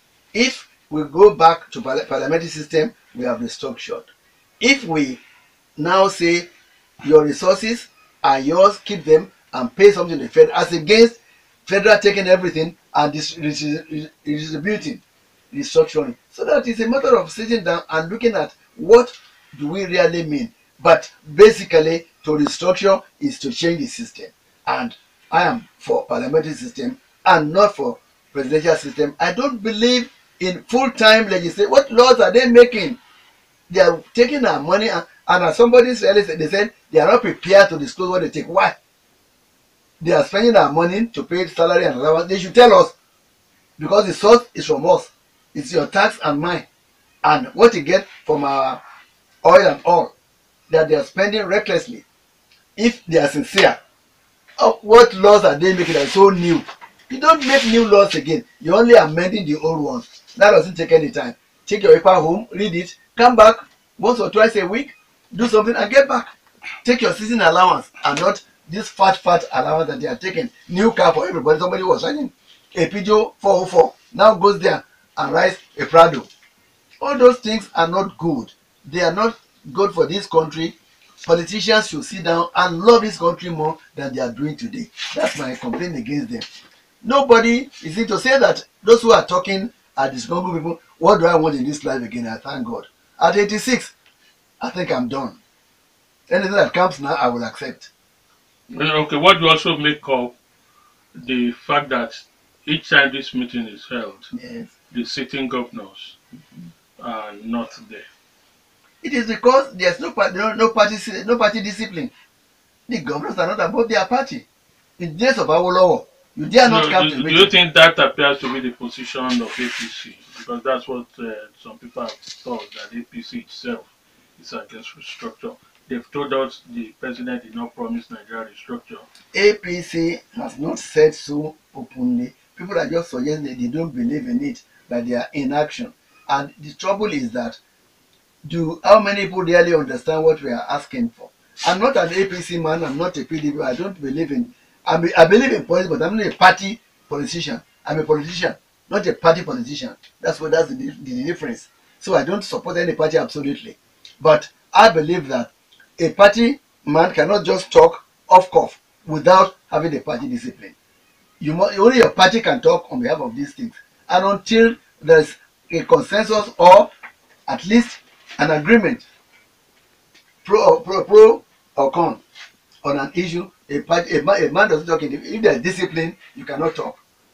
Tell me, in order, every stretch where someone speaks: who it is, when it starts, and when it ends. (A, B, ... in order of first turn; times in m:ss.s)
0:00.3-0:04.1 A
0:04.6-0:05.2 A
0:05.8-0:06.5 A
0:07.0-0:15.0 A
0:15.5-0:33.0 A
0:33.7-0:38.8 A
0:40.0-0:42.9 A
0:43.8-0:46.6 A
0:47.2-0:48.8 A
0:49.4-0:50.1 A
0:50.7-0:52.0 A
0:52.8-0:53.8 A
0:54.6-1:06.3 A
1:06.8-1:16.3 A
1:17.0-1:26.4 A
1:27.0-1:33.9 A
1:34.6-1:35.4 A
1:36.3-1:37.9 A
1:38.7-1:40.3 B
1:41.1-1:44.3 B
1:44.3-1:44.7 A
1:44.9-1:46.2 B
1:47.0-1:48.1 B
1:49.0-1:52.1 A
1:52.9-1:54.4 A
1:55.0-1:57.5 A
1:56.6-2:09.0 B
2:09.3-2:17.6 A
2:18.4-2:40.7 A
2:41.4-2:46.9 A
2:47.5-2:49.0 A
2:50.4-2:52.2 A
2:52.8-2:57.0 A